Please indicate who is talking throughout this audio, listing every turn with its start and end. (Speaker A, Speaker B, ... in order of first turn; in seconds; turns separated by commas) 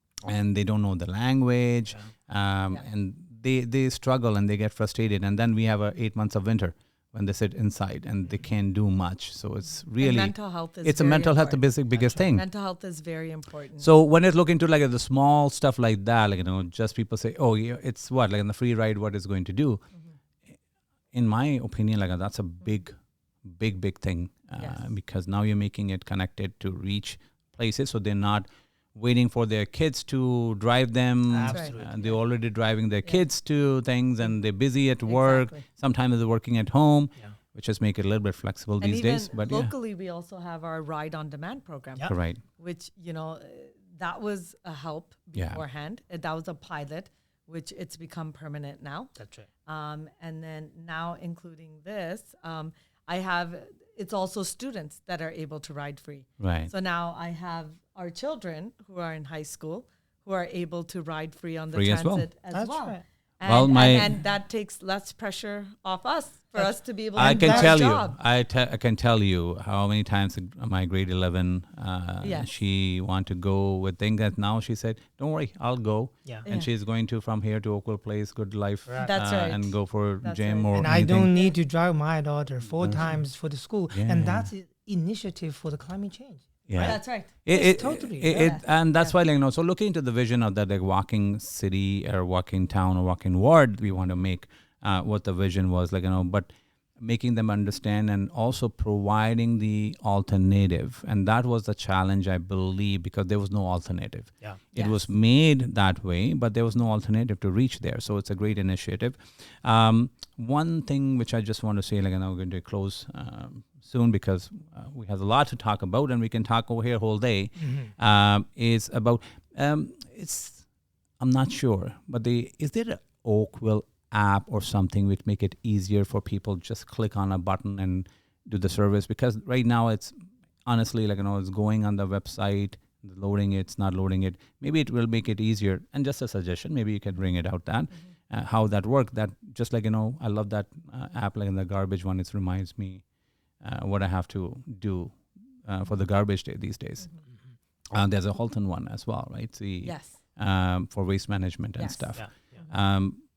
Speaker A: 0.2-12.4, Speaker B: 10.0-13.9, Speaker C: 11.9-12.3, Speaker A: 13.8-19.8, Speaker A: 21.1-39.7, Speaker B: 24.6-24.9, Speaker C: 31.3-32.2, Speaker B: 31.4-31.8, Speaker B: 35.0-35.6, Speaker B: 38.8-49.1, Speaker A: 42.0-42.4, Speaker A: 45.3-45.6, Speaker C: 49.1-49.5, Speaker B: 49.6-68.2, Speaker A: 56.4-56.7, Speaker A: 61.7-62.2, Speaker C: 62.5-63.0, Speaker A: 63.4-64.1, Speaker C: 63.7-64.1, Speaker C: 66.5-67.8, Speaker A: 67.1-81.3, Speaker B: 72.2-72.5, Speaker C: 78.8-79.1, Speaker B: 79.0-81.5, Speaker C: 80.7-88.6, Speaker A: 82.8-83.2, Speaker A: 83.9-84.5, Speaker A: 86.7-120.6, Speaker B: 86.8-87.3, Speaker B: 88.2-89.1, Speaker B: 104.7-105.1, Speaker C: 117.6-117.9, Speaker A: 121.2-143.0, Speaker A: 143.6-147.1, Speaker A: 147.9-153.2, Speaker B: 149.8-150.2, Speaker B: 151.8-152.7, Speaker C: 152.1-152.6